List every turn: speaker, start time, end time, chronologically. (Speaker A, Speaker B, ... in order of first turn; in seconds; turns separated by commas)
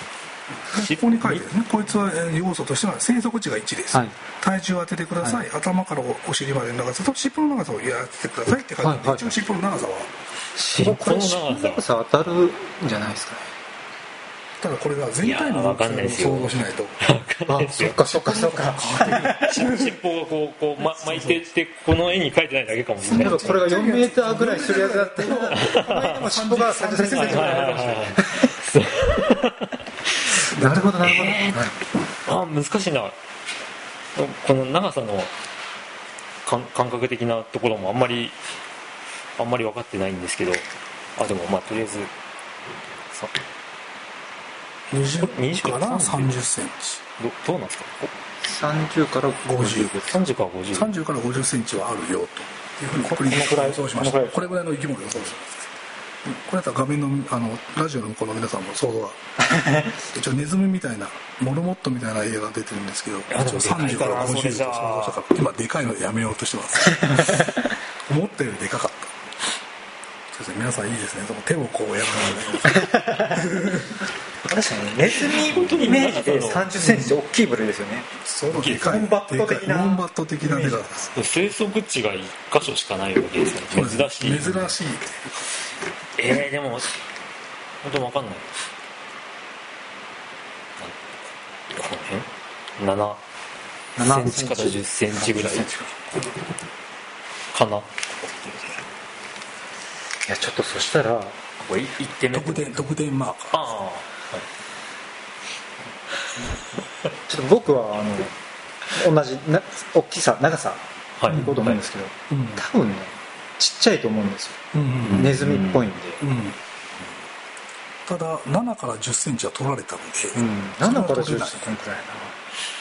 Speaker A: 0.6-10.1, Speaker B: 0.8-1.5, Speaker C: 8.8-9.3, Speaker C: 10.6-13.5, Speaker B: 10.8-11.8, Speaker A: 10.9-11.2, Speaker A: 14.6-17.0, Speaker B: 15.2-18.0, Speaker C: 17.5-19.4, Speaker A: 18.0-20.0, Speaker B: 19.3-23.8, Speaker A: 20.8-21.5, Speaker A: 23.0-28.5, Speaker C: 23.1-28.5, Speaker B: 25.5-26.2, Speaker B: 27.2-30.4, Speaker C: 30.5-31.7, Speaker A: 30.5-31.0, Speaker B: 31.0-31.7, Speaker B: 32.3-33.2, Speaker B: 34.1-35.3, Speaker B: 36.5-38.4, Speaker B: 39.4-42.1, Speaker A: 44.9-47.0, Speaker B: 45.1-46.3, Speaker B: 47.2-48.1, Speaker C: 48.4-50.2, Speaker A: 49.4-50.1, Speaker B: 50.1-50.9, Speaker A: 50.8-55.7, Speaker C: 53.0-54.5, Speaker A: 56.3-59.2, Speaker C: 59.6-59.9, Speaker A: 60.0-67.4, Speaker B: 63.3-65.2, Speaker C: 63.3-64.4, Speaker C: 67.1-67.4, Speaker A: 68.0-69.2, Speaker A: 70.3-74.0, Speaker C: 72.7-73.3, Speaker C: 74.5-80.0, Speaker B: 75.1-77.0, Speaker A: 76.8-77.2, Speaker A: 78.2-81.1, Speaker B: 78.6-79.0, Speaker B: 81.1-84.6, Speaker A: 83.7-85.5, Speaker B: 86.2-87.0, Speaker B: 87.8-88.6, Speaker B: 90.8-91.2, Speaker B: 91.7-93.2, Speaker C: 94.0-95.9, Speaker B: 94.0-95.7, Speaker A: 95.6-96.3, Speaker B: 97.5-97.9, Speaker A: 98.4-98.7, Speaker C: 100.2-101.4, Speaker B: 101.6-102.8, Speaker A: 102.3-103.6, Speaker B: 103.5-104.5, Speaker C: 107.3-108.3, Speaker C: 108.9-116.3, Speaker B: 111.2-111.8, Speaker A: 111.3-111.6, Speaker A: 112.3-112.6, Speaker A: 114.7-115.4, Speaker B: 115.1-115.8, Speaker A: 116.2-116.6, Speaker A: 118.1-121.8, Speaker C: 120.4-122.3